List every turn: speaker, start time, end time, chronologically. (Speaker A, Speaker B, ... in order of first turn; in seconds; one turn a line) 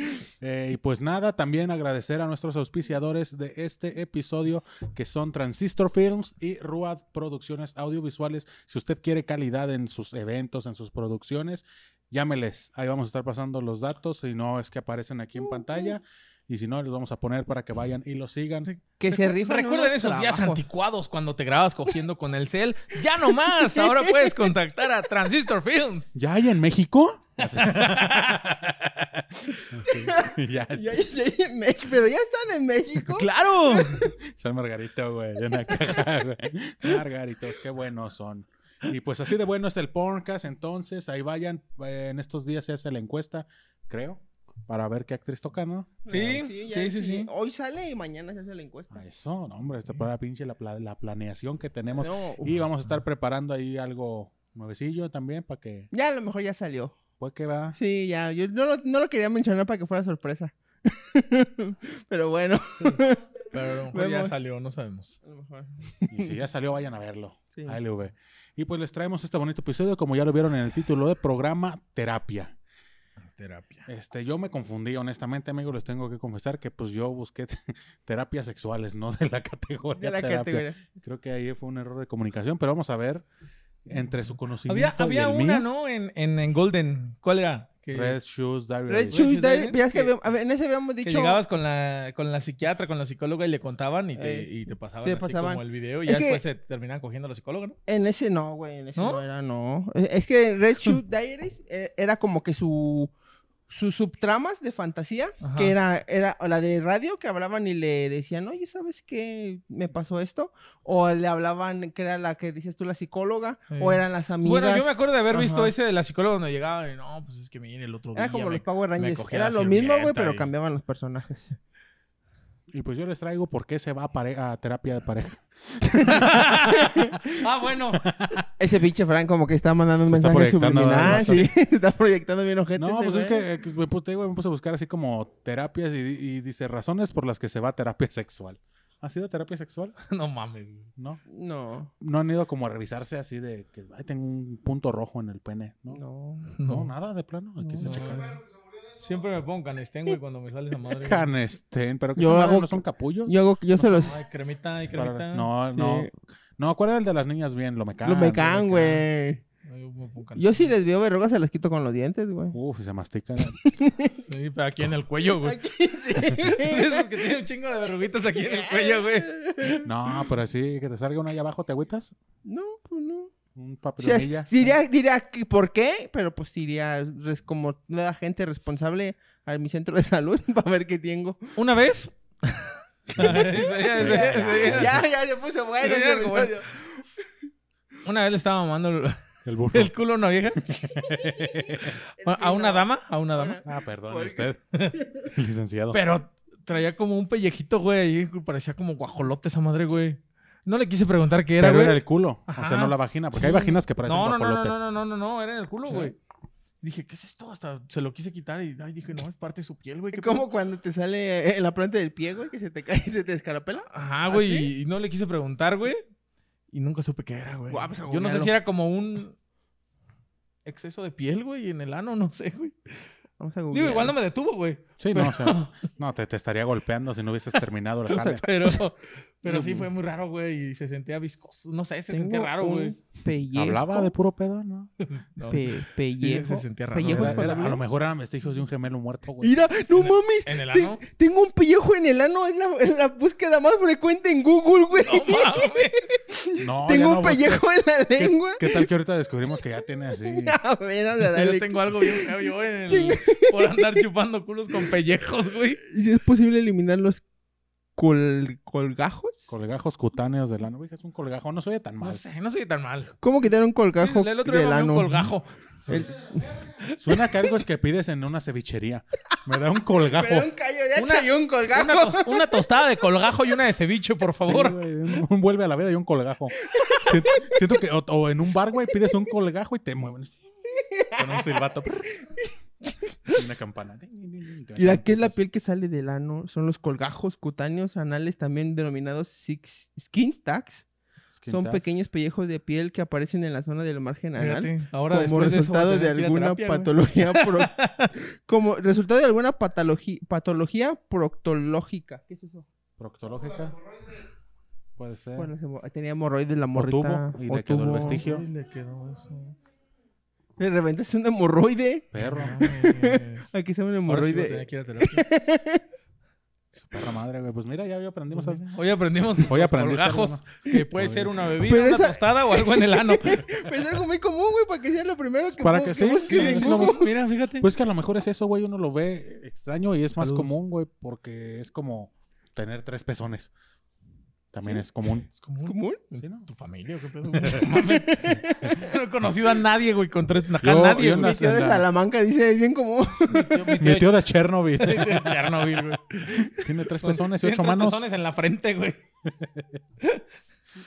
Speaker A: 0.4-18.7
Speaker B: 18.6-26.1
Speaker C: 19.0-20.6
Speaker C: 23.1-24.5
Speaker A: 26.1-30.9
Speaker B: 27.4-28.4
Speaker C: 29.8-34.1
Speaker B: 33.1-34.0
Speaker A: 34.2-46.3
Speaker C: 35.7-36.0
Speaker C: 46.0-49.0
Speaker B: 46.1-47.3
Speaker A: 48.9-55.9
Speaker C: 52.0-52.6
Speaker C: 55.9-56.9
Speaker A: 57.2-57.8
Speaker C: 57.7-63.3
Speaker B: 63.5-65.2
Speaker C: 63.9-64.3
Speaker C: 65.2-66.4
Speaker A: 66.1-72.5
Speaker B: 73.2-73.9
Speaker A: 73.9-83.2
Speaker C: 80.0-80.8
Speaker A: 83.8-85.6
Speaker B: 84.7-88.2
Speaker A: 87.9-89.2
Speaker C: 88.9-91.4
Speaker B: 89.1-90.2
Speaker B: 91.0-97.8
Speaker C: 94.2-96.4
Speaker C: 97.9-103.1
Speaker B: 99.0-99.2
Speaker C: 103.7-115.7
Speaker B: 105.4-105.7
Speaker B: 113.7-120.5
Speaker C: 118.1-121.6
Speaker A: 122.7-127.0
Speaker C: 125.9-127.4
Speaker B: 126.0-128.1
Speaker A: 127.9-128.4
Speaker C: 128.6-133.4
Speaker A: 130.1-131.5
Speaker B: 131.0-131.5
Speaker A: 132.8-139.9
Speaker B: 140.0-140.9
Speaker C: 141.3-141.9
Speaker A: 142.0-146.0
Speaker C: 145.9-146.5
Speaker B: 146.6-146.9
Speaker A: 146.6-148.3
Speaker C: 147.6-148.1
Speaker B: 147.8-151.3
Speaker A: 150.9-154.1
Speaker C: 152.2-154.1
Speaker B: 153.9-155.5
Speaker A: 154.9-158.8
Speaker C: 155.7-156.1
Speaker C: 158.0-159.4
Speaker B: 158.7-159.0
Speaker B: 159.6-160.7
Speaker C: 160.3-162.6
Speaker A: 162.5-163.6
Speaker C: 163.6-164.2
Speaker B: 164.3-165.6
Speaker C: 165.4-167.3
Speaker B: 166.3-169.8
Speaker C: 168.3-169.9
Speaker A: 169.8-172.1
Speaker C: 172.4-173.3
Speaker A: 173.5-174.7
Speaker C: 174.0-181.6
Speaker B: 181.6-185.0
Speaker C: 183.1-186.8
Speaker A: 183.2-185.0
Speaker B: 185.8-186.6
Speaker B: 188.0-189.2
Speaker A: 189.4-189.9
Speaker B: 189.7-190.7
Speaker A: 190.6-192.0
Speaker C: 190.8-194.5
Speaker B: 192.2-193.6
Speaker A: 193.6-194.6
Speaker A: 195.3-196.0
Speaker B: 195.9-206.1
Speaker A: 201.6-204.8
Speaker C: 205.8-206.1
Speaker B: 206.8-210.4
Speaker C: 210.1-214.7
Speaker B: 213.9-216.0
Speaker B: 216.7-219.3
Speaker C: 217.7-218.5
Speaker B: 220.6-223.1
Speaker C: 223.4-224.1
Speaker B: 223.7-225.8
Speaker A: 225.0-228.4
Speaker C: 228.1-228.8
Speaker B: 228.2-232.9
Speaker C: 229.4-229.7
Speaker A: 229.5-229.8
Speaker C: 232.1-234.1
Speaker A: 233.5-234.9
Speaker B: 235.0-237.6
Speaker C: 235.5-237.8
Speaker A: 237.1-239.7
Speaker C: 239.4-248.8
Speaker B: 239.9-241.0
Speaker B: 244.9-246.0
Speaker A: 246.6-250.6
Speaker C: 250.2-254.0
Speaker B: 251.2-255.8
Speaker C: 255.8-257.2
Speaker C: 257.9-259.5
Speaker A: 259.5-262.2
Speaker B: 262.0-263.1
Speaker C: 263.2-265.2
Speaker B: 264.0-265.9
Speaker C: 265.9-266.6
Speaker A: 267.0-270.5
Speaker C: 270.1-272.9
Speaker B: 270.9-274.8
Speaker A: 274.4-280.4
Speaker C: 276.6-277.6
Speaker C: 280.7-281.5
Speaker A: 281.1-282.1
Speaker C: 282.2-283.4
Speaker A: 283.3-285.4
Speaker C: 284.8-290.8
Speaker A: 291.3-291.9
Speaker C: 291.5-302.6
Speaker B: 294.4-298.1
Speaker A: 303.0-303.8
Speaker A: 305.0-305.5
Speaker C: 305.4-308.2
Speaker A: 306.7-308.4
Speaker B: 308.0-309.6
Speaker C: 310.6-315.8
Speaker A: 312.1-312.6
Speaker B: 312.2-313.5
Speaker B: 314.1-315.2
Speaker A: 316.7-318.6
Speaker B: 318.3-323.6
Speaker A: 319.4-321.4
Speaker C: 321.6-327.1
Speaker A: 325.5-333.5
Speaker B: 326.3-327.7
Speaker B: 330.2-330.6
Speaker A: 334.5-335.3
Speaker B: 335.3-341.3
Speaker C: 335.6-336.0
Speaker A: 336.2-336.5
Speaker A: 337.4-337.7
Speaker C: 337.7-338.9
Speaker A: 340.6-341.9
Speaker C: 341.1-343.8
Speaker B: 343.3-344.2
Speaker A: 343.8-348.0
Speaker B: 344.8-349.0
Speaker A: 349.2-349.8